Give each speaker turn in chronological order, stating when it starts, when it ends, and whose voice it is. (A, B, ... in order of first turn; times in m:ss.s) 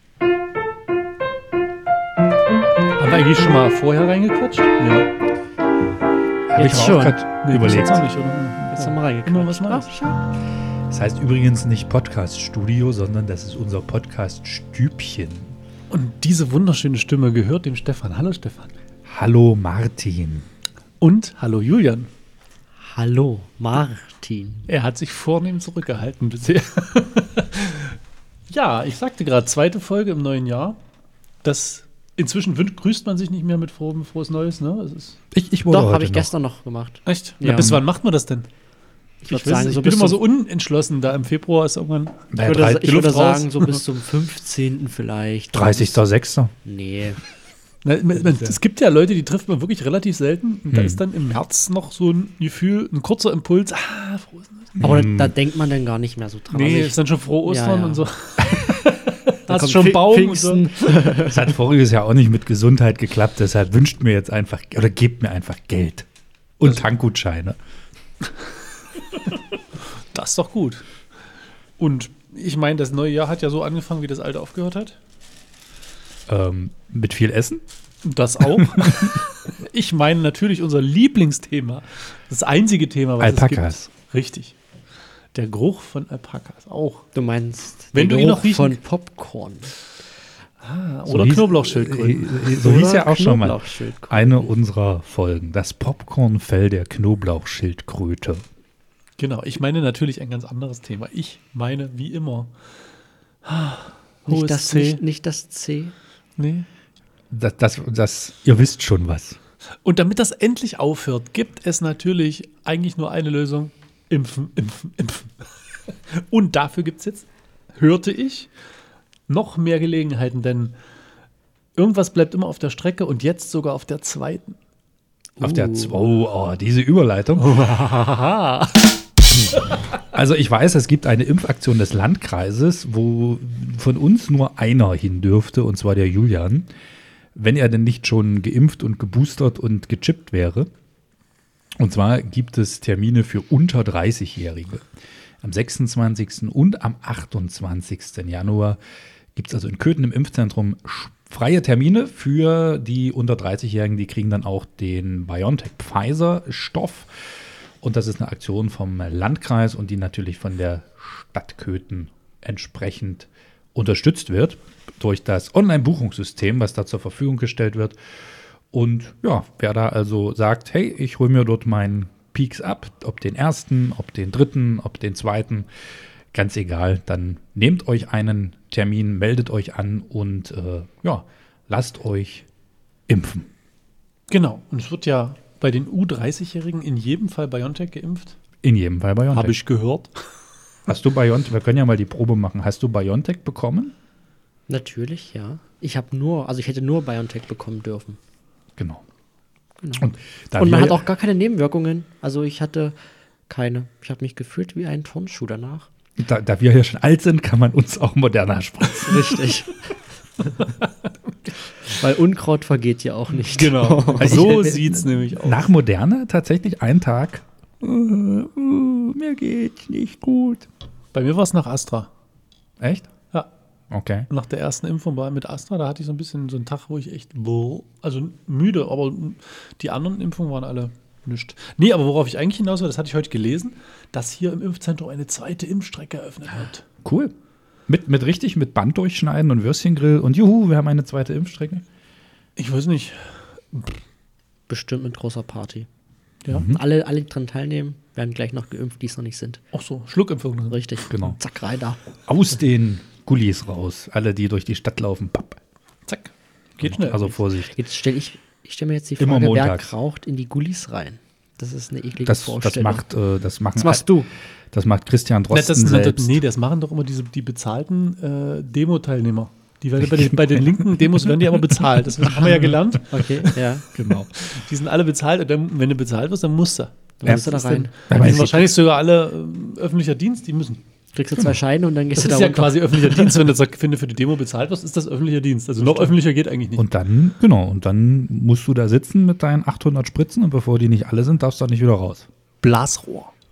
0:03.0-0:05.1 A
0:06.5-0:08.0 B
0:06.6-0:07.2 C
0:07.4-0:09.9 A
0:08.7-0:10.2 C
0:10.9-0:15.6 B
0:15.9-0:18.7 A
0:19.0-0:20.5 B
0:21.0-0:22.1 A
0:22.8-0:24.6 C
0:24.7-0:28.0 A
0:28.5-0:30.8 A
0:31.4-0:35.2 A
0:35.3-0:36.3 B
0:35.7-0:37.8 C
0:37.0-0:38.5 A
0:39.2-0:40.2 C
0:39.3-0:43.8 A
0:42.3-0:43.0 B
0:42.4-0:46.0 C
0:45.5-0:46.5 B
0:46.6-0:47.2 C
0:47.8-0:54.8 A
0:48.2-0:48.5 B
0:50.7-0:51.0 B
0:54.8-0:55.3 B
0:54.8-0:58.1 C
0:56.5-1:00.8 A
0:59.5-1:01.5 C
1:01.2-1:06.1 B
1:06.6-1:07.6 B
1:10.0-1:10.9 A
1:11.8-1:15.0 A
1:16.3-1:17.6 B
1:18.0-1:24.6 A
1:18.6-1:19.1 B
1:23.2-1:23.9 B
1:25.3-1:27.1 A
1:27.1-1:29.8 C
1:27.9-1:28.8 A
1:30.6-1:32.5 A
1:31.1-1:38.4 B
1:32.6-1:34.5 C
1:39.2-1:42.6 A
1:43.4-1:45.0 A
1:44.3-1:45.9 C
1:46.4-1:46.7 A
1:47.3-1:49.4 B
1:49.8-1:58.5 A
1:59.3-2:00.7 A
2:01.8-2:04.6 A
2:05.4-2:06.0 C
2:05.4-2:07.6 B
2:07.4-2:08.9 A
2:09.4-2:16.7 B
2:17.3-2:20.7 B
2:21.8-2:24.9 B
2:25.4-2:28.8 B
2:29.3-2:48.0 B
2:48.7-2:55.7 B
2:56.3-3:02.5 B
3:03.1-3:03.5 B
3:04.3-3:08.4 A
3:08.6-3:09.6 B
3:09.3-3:10.3 A
3:10.8-3:13.9 B
3:14.7-3:18.2 C
3:18.8-3:19.0 B
3:19.8-3:22.9 C
3:20.0-3:21.1 B
3:23.5-3:25.9 C
3:26.2-3:29.6 B
3:28.9-3:29.9 C
3:30.6-3:30.9 A
3:31.9-3:34.5 C
3:33.3-3:35.6 A
3:34.2-3:40.6 B
3:41.1-3:42.1 A
3:42.8-3:43.1 B
3:43.9-3:44.3 B
3:44.3-3:56.9 A
3:57.0-3:57.3 B
3:57.9-4:01.8 B
4:02.6-4:04.0 A
4:04.7-4:05.9 C
4:06.5-4:06.8 B
4:06.6-4:09.6 C
4:09.7-4:10.9 A
4:10.7-4:12.0 C
4:11.1-4:11.4 B
4:12.2-4:15.6 B
4:16.1-4:17.4 A
4:16.8-4:17.7 B
4:17.7-4:23.0 C
4:19.2-4:19.9 B
4:22.2-4:24.1 B
4:23.8-4:24.3 C
4:24.7-4:26.4 B
4:25.5-4:33.5 A
4:30.0-4:30.6 B
4:32.2-4:32.8 B
4:33.1-4:33.9 C
4:33.9-4:34.6 B
4:34.3-4:40.8 A
4:37.2-4:37.9 C
4:38.1-4:38.7 B
4:41.1-4:43.4 C
4:42.2-4:46.9 A
4:46.8-4:52.3 B
4:52.6-4:53.3 A